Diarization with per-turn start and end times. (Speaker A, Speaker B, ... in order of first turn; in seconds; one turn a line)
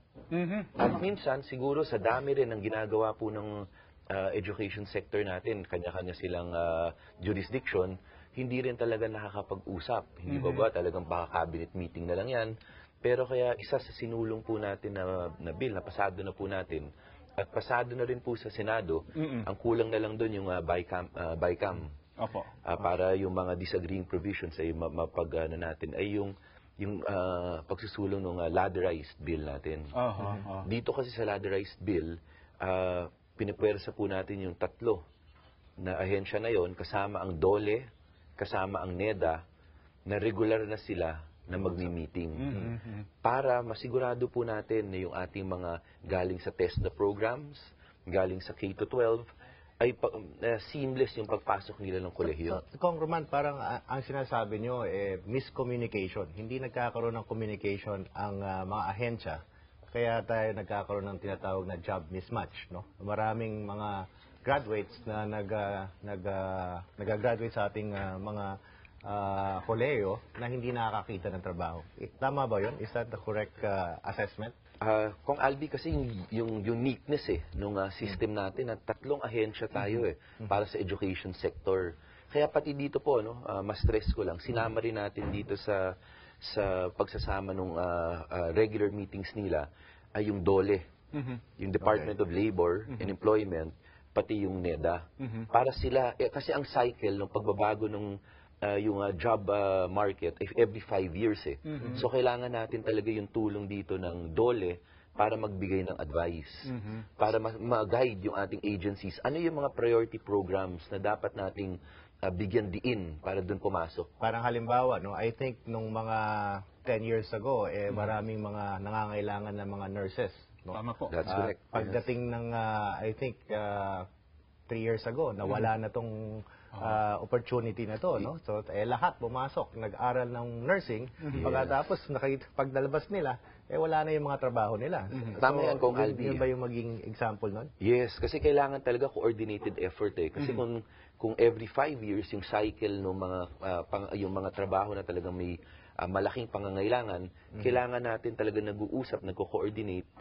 Speaker A: 0.3-0.8
Speaker B: 0.7-21.9
Speaker A: 10.3-10.7
Speaker A: 19.1-19.5
Speaker A: 22.2-22.5
Speaker B: 22.6-35.0
Speaker A: 29.9-30.7
Speaker B: 35.8-37.9
Speaker B: 38.4-39.4
Speaker B: 40.1-49.3
Speaker A: 42.4-43.0
Speaker B: 49.8-52.6
Speaker C: 52.2-59.4
Speaker C: 59.9-74.5
Speaker B: 74.8-90.8
Speaker A: 91.1-91.4
Speaker B: 91.6-114.1
Speaker A: 95.2-95.5
Speaker A: 101.7-102.0
Speaker A: 106.7-107.0
Speaker C: 114.2-124.0
Speaker A: 120.7-121.2
Speaker B: 121.1-122.0
Speaker C: 124.7-137.7
Speaker B: 131.4-131.7
Speaker B: 135.4-136.4
Speaker B: 137.8-150.1